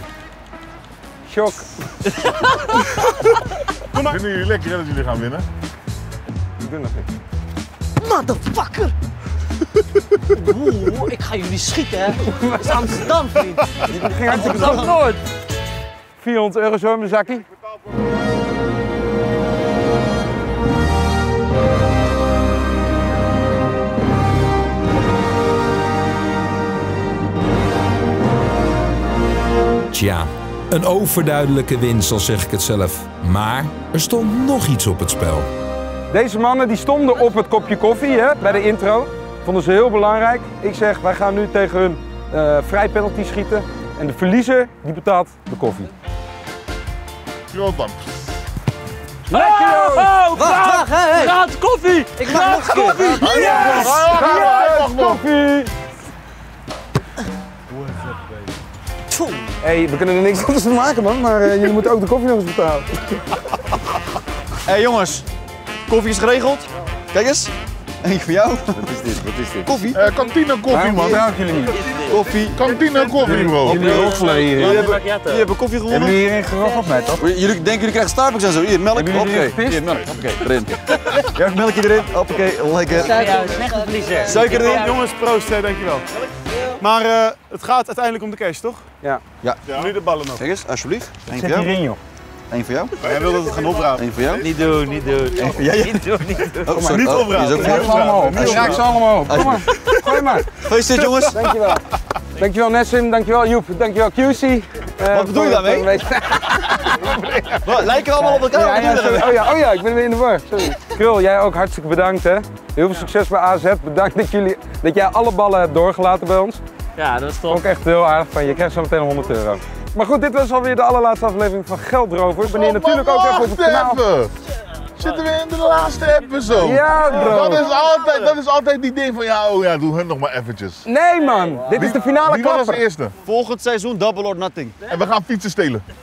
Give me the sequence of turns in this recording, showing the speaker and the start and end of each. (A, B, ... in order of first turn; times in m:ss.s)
0:01.3-0:01.6 A
0:04.0-0:05.5 B
0:06.6-0:07.1 A
0:08.0-0:08.9 C
0:10.3-0:14.5 C
0:12.3-0:13.0 A
0:13.8-0:15.1 A
0:14.3-0:14.9 D
0:14.3-0:15.2 E
0:16.2-0:17.4 A
0:29.9-0:35.5 F
0:36.1-0:45.9 A
0:47.5-0:48.0 B
0:49.3-0:50.1 A
0:49.3-0:53.9 E
0:50.3-0:51.4 C
0:52.2-0:54.4 C
0:53.1-0:55.2 B
0:53.2-0:55.7 A
0:59.1-0:59.5 C
0:59.6-1:03.0 A
1:04.6-1:05.2 D
1:05.9-1:10.0 D
1:08.8-1:09.7 A
1:09.9-1:11.2 B
1:10.7-1:11.8 A
1:11.8-1:12.1 E
1:12.1-1:12.7 D
1:12.5-1:13.9 B
1:13.2-1:14.9 A
1:13.5-1:16.2 D
1:13.7-1:15.5 E
1:15.9-1:17.3 A
1:16.6-1:16.9 C
1:17.2-1:23.3 D
1:18.9-1:20.2 A
1:22.9-1:24.8 C
1:22.9-1:25.0 E
1:24.2-1:24.9 D
1:24.7-1:26.0 G
1:26.5-1:26.8 C
1:26.8-1:28.8 G
1:29.4-1:29.8 D
1:29.6-1:29.9 B
1:29.8-1:30.4 G
1:30.4-1:31.7 D
1:31.3-1:32.0 A
1:32.5-1:34.5 D
1:33.0-1:34.0 G
1:33.0-1:33.5 B
1:34.3-1:37.1 E
1:35.4-1:41.4 D
1:36.7-1:40.5 A
1:36.9-1:39.4 G
1:41.2-1:41.8 A
1:42.4-1:56.6 A
1:45.1-1:45.9 D
1:47.6-1:49.4 D
1:57.0-1:57.6 E
1:57.5-2:04.0 A
2:02.4-2:04.3 B
2:05.0-2:10.8 B
2:06.6-2:07.7 A
2:06.9-2:08.4 D
2:10.8-2:12.8 A
2:11.6-2:11.9 D
2:11.7-2:13.2 B
2:13.2-2:14.8 D
2:14.8-2:15.8 B